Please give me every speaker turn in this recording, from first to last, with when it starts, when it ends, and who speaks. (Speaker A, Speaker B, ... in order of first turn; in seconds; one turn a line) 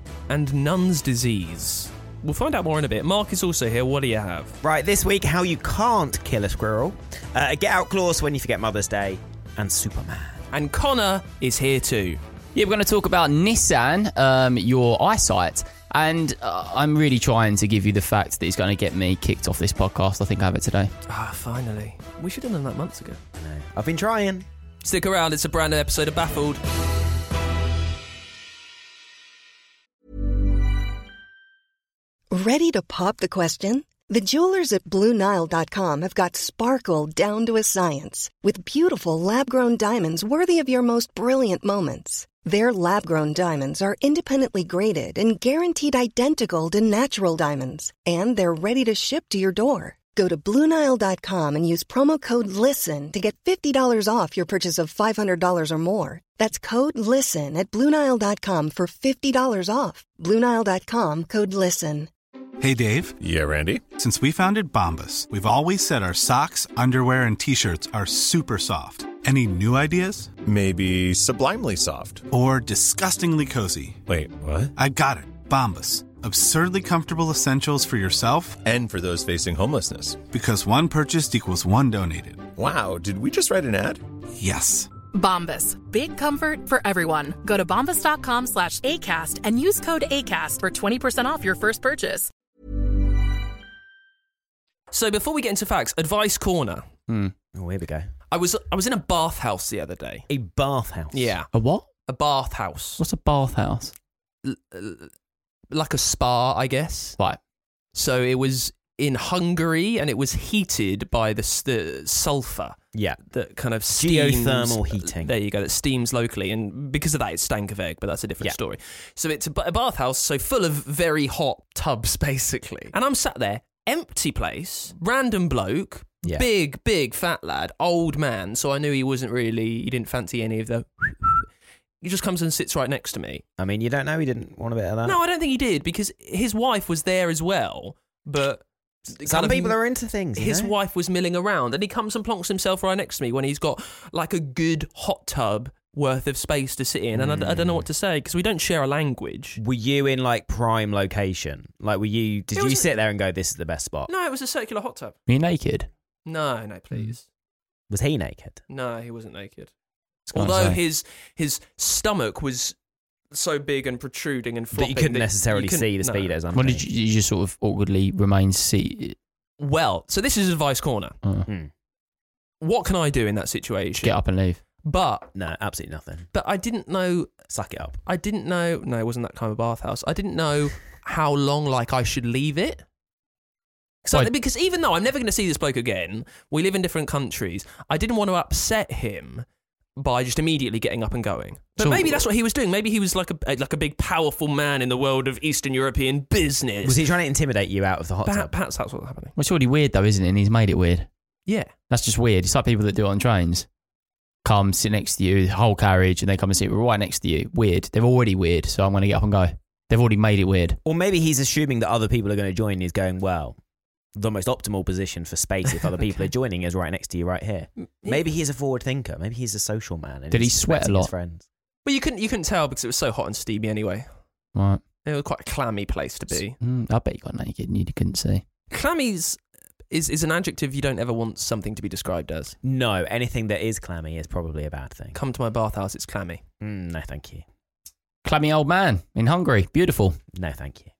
Speaker A: 0.3-4.5
Speaker B: 4.6-10.4
Speaker A: 10.5-12.2
Speaker C: 12.6-20.9
Speaker A: 21.1-23.2
Speaker B: 23.4-24.5
Speaker A: 24.8-26.6
Speaker D: 32.3-62.1
Speaker E: 62.6-63.2
Speaker F: 63.2-63.9
Speaker E: 63.9-70.3
Speaker F: 70.4-72.3
Speaker E: 72.3-74.0
Speaker F: 74.1-74.7
Speaker E: 74.8-78.6
Speaker F: 78.6-80.2
Speaker E: 80.3-82.5
Speaker F: 82.5-84.0
Speaker E: 84.4-84.9
Speaker G: 85.1-92.3
Speaker A: 94.9-96.9
Speaker C: 97.1-97.3
Speaker B: 97.5-98.1
Speaker A: 98.3-100.3
Speaker B: 100.3-101.3
Speaker A: 101.1-101.5
Speaker C: 101.5-101.9
Speaker A: 102.1-103.0
Speaker C: 103.0-103.9
Speaker A: 104.4-105.1
Speaker A: 105.7-107.2
Speaker A: 107.9-131.5
Speaker B: 112.9-113.2
Speaker B: 114.0-115.3
Speaker A: 132.0-133.4
Speaker B: 133.6-135.2
Speaker A: 135.1-138.7
Speaker A: 139.2-139.8
Speaker B: 139.2-140.7
Speaker A: 140.4-149.6
Speaker B: 147.2-147.8
Speaker B: 149.6-154.1
Speaker A: 152.5-152.9
Speaker A: 154.1-155.2
Speaker C: 155.3-155.9
Speaker A: 156.3-157.2
Speaker B: 157.9-158.6
Speaker A: 158.7-159.7
Speaker A: 160.3-162.8
Speaker C: 160.3-160.8
Speaker A: 163.3-166.3
Speaker B: 164.7-166.8
Speaker C: 166.5-169.2
Speaker A: 169.6-171.2
Speaker A: 172.6-174.1
Speaker C: 174.0-174.6
Speaker A: 174.8-175.3
Speaker B: 175.3-176.3
Speaker A: 176.3-177.3
Speaker B: 177.5-178.0
Speaker A: 178.1-182.8
Speaker A: 184.1-189.4
Speaker A: 190.0-197.0
Speaker C: 191.8-192.3
Speaker B: 196.8-198.5
Speaker A: 198.2-199.3
Speaker C: 199.4-201.1
Speaker A: 201.5-201.7
Speaker C: 201.9-203.7
Speaker C: 204.4-210.8
Speaker B: 210.8-213.6
Speaker B: 214.2-221.5
Speaker A: 217.8-218.2
Speaker C: 220.3-221.1
Speaker A: 221.8-224.1
Speaker C: 224.6-224.8
Speaker A: 225.0-226.6
Speaker C: 226.6-228.4
Speaker A: 228.7-229.4
Speaker A: 229.9-232.6
Speaker B: 232.6-235.2
Speaker A: 235.1-236.4
Speaker B: 236.6-237.4
Speaker C: 238.2-240.2
Speaker B: 240.3-240.9